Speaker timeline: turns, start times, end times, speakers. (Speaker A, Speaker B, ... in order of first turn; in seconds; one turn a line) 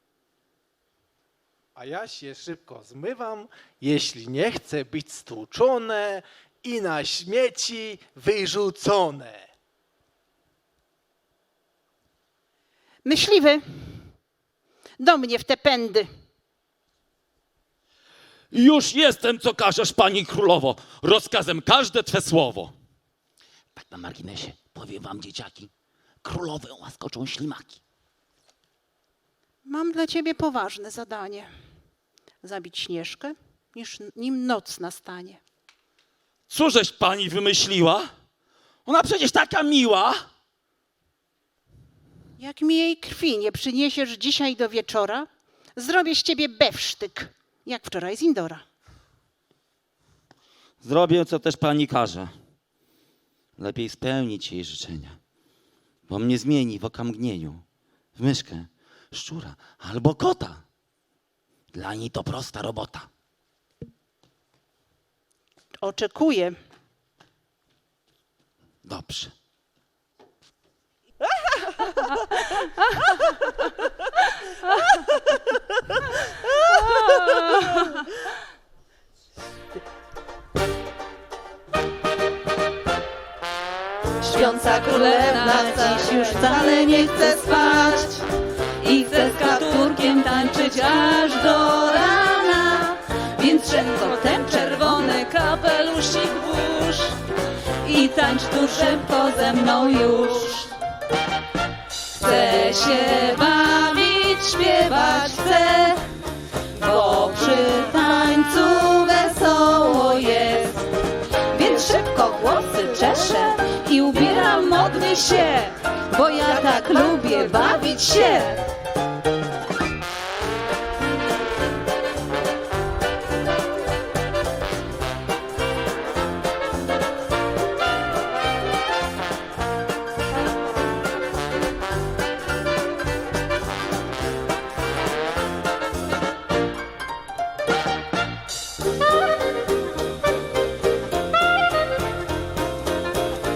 Speaker A: 1.8-9.5
Speaker B: 13.0-14.1
Speaker B: 15.0-16.1
Speaker C: 18.5-22.7
Speaker C: 23.8-25.7
Speaker C: 26.2-27.8
Speaker B: 29.6-31.5
Speaker B: 32.4-35.4
Speaker C: 36.5-38.1
Speaker C: 38.9-40.2
Speaker B: 42.4-48.6
Speaker C: 50.8-52.3
Speaker C: 53.6-55.2
Speaker C: 56.1-57.6
Speaker C: 58.1-60.6
Speaker C: 61.7-63.1
Speaker B: 65.8-66.5
Speaker C: 68.8-69.3
Speaker D: 84.2-88.2
Speaker D: 88.8-97.1
Speaker D: 97.8-100.7
Speaker D: 102.2-106.0
Speaker D: 106.7-110.8
Speaker D: 111.5-118.6